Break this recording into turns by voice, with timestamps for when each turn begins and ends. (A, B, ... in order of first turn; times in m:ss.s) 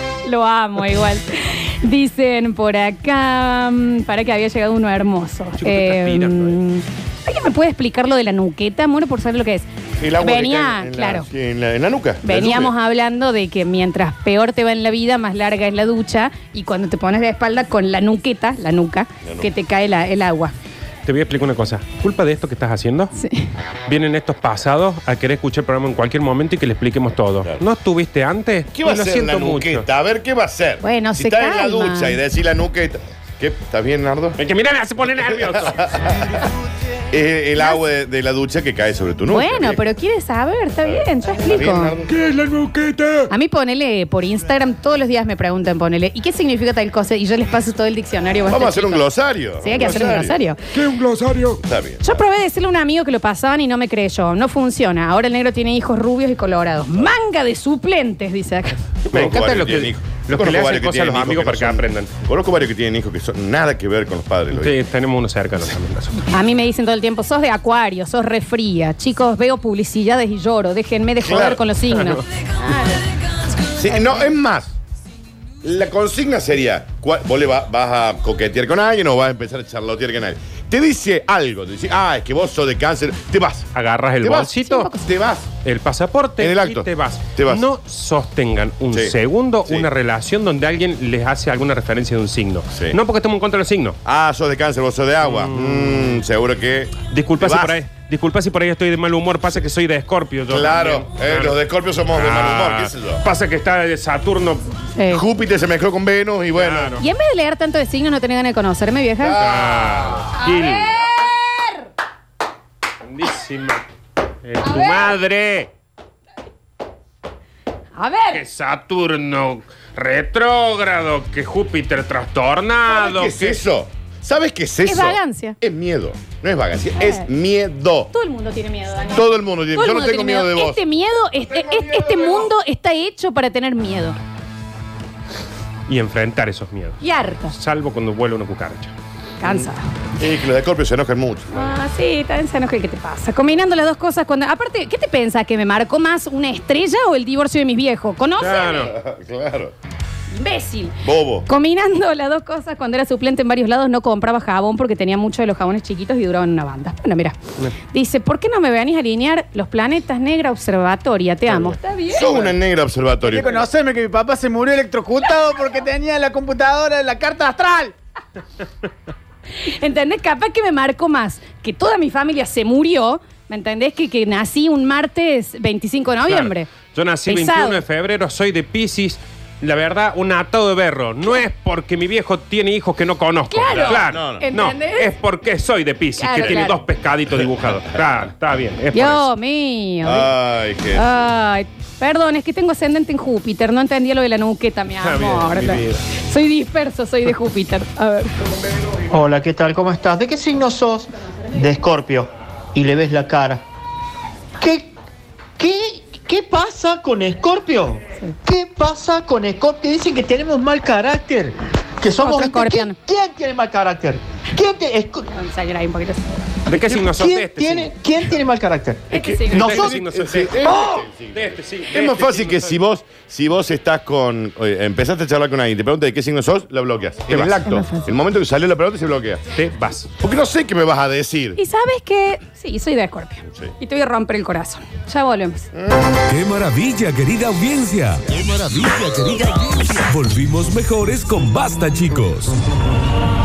0:00.2-0:11.3 A
0:05.6-0:06.6 B
0:10.0-0:12.7 C
0:12.2-0:20.5 A
0:19.2-0:19.5 C
0:21.0-0:23.1 B
0:23.1-0:23.5 A
0:23.9-0:29.9 B
0:28.7-0:34.4 C
0:30.8-0:32.2 A
0:34.4-0:35.9 B
0:35.7-0:36.1 C
0:37.1-0:39.8 C
0:37.6-0:37.8 A
0:39.3-0:42.0 A
0:40.8-0:42.2 C
0:42.1-0:43.2 B
0:43.3-0:49.0 A
0:48.4-0:50.3 C
0:49.6-0:50.6 A
0:50.7-0:51.6 B
0:51.6-0:52.1 C
0:52.0-0:58.8 A
0:59.1-1:02.1 B
0:59.1-1:04.8 C
1:04.5-1:06.2 B
1:06.3-1:13.0 A
1:11.2-1:11.6 C
1:13.8-1:14.7 C
1:15.6-1:23.7 C
1:23.7-1:24.9 B
1:24.2-1:25.5 C
1:24.6-1:25.1 A
1:25.6-1:34.0 B
1:26.4-1:27.7 C
1:28.9-1:29.9 C
1:32.7-1:33.0 C
1:34.0-1:37.8 C
1:35.2-1:36.2 B
1:37.1-1:44.7 B
1:40.5-1:43.2 C
1:45.0-1:45.2 A
1:45.1-1:47.0 C
1:46.5-1:47.0 B
1:47.0-1:49.5 A
1:49.2-1:50.2 C
1:49.4-1:50.9 B
1:50.3-1:51.9 A
1:53.0-1:53.8 B
1:54.4-1:55.7 B
1:54.6-1:55.1 A
1:57.9-1:58.4 A
1:58.3-2:03.6 B
2:02.8-2:08.1 C
2:04.8-2:05.6 A
2:07.0-2:07.3 A
2:08.1-2:14.2 A
2:09.1-2:10.8 C
2:11.6-2:12.4 C
2:15.9-2:18.9 B
2:17.0-2:17.5 A
2:19.4-2:19.9 A
2:20.2-2:21.7 C
2:21.5-2:28.9 A
2:28.4-2:28.9 B
2:28.8-2:29.7 C
2:30.3-2:37.4 A
2:31.0-2:31.5 C
2:37.9-2:42.4 A
2:41.5-2:41.8 D
2:42.1-2:43.7 C
2:42.3-2:42.5 D
2:43.2-2:47.9 D
2:49.6-2:56.7 A
2:56.3-3:09.3 B
2:57.2-2:57.8 A
3:03.5-3:05.1 A
3:03.7-3:04.4 C
3:06.2-3:06.8 A
3:08.9-3:10.3 A
3:10.0-3:11.0 C
3:10.9-3:18.3 A
3:15.0-3:16.0 B
3:19.1-3:23.6 E
3:24.6-3:24.9 E
3:25.6-3:35.2 E
3:32.2-3:33.0 A
3:35.3-3:36.4 A
3:36.7-3:38.0 B
3:36.8-3:39.9 E
3:39.1-3:39.8 A
3:39.1-3:49.4 C
3:39.2-3:42.8 B
3:47.3-3:47.7 B
3:47.6-3:48.1 A
3:49.5-3:50.1 B
3:50.2-3:51.6 C
3:51.6-3:55.7 A
3:55.7-3:56.1 C
3:56.3-4:02.5 F